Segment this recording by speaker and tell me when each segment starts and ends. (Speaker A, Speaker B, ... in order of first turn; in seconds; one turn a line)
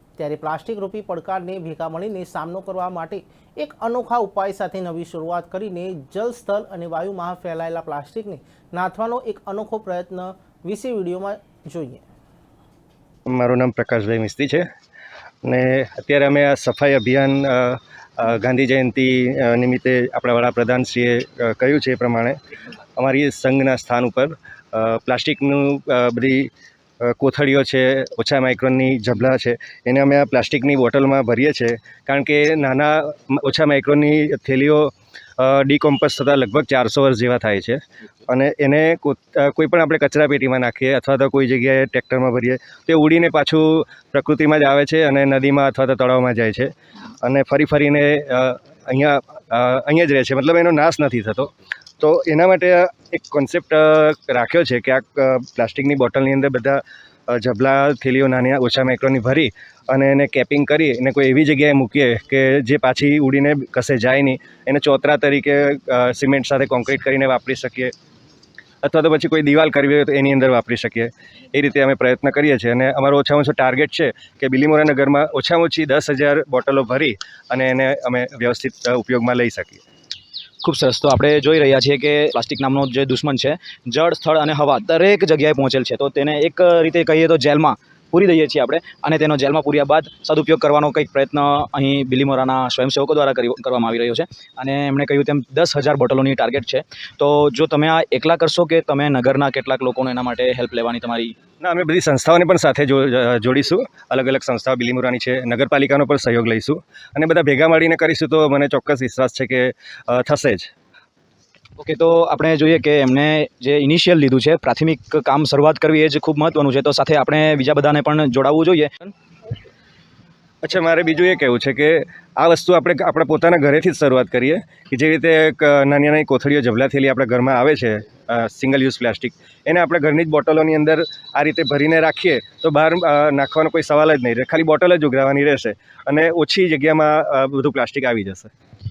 Speaker A: 0.2-12.0
Speaker B: 13.3-14.6
Speaker B: 15.4-22.3
Speaker B: 22.9-26.5
Speaker B: 27.0-46.7
Speaker B: 47.2-67.9
Speaker B: 68.8-79.8
Speaker C: 80.6-101.3
Speaker B: 101.6-110.7
Speaker C: 111.8-119.1
Speaker B: 120.6-138.5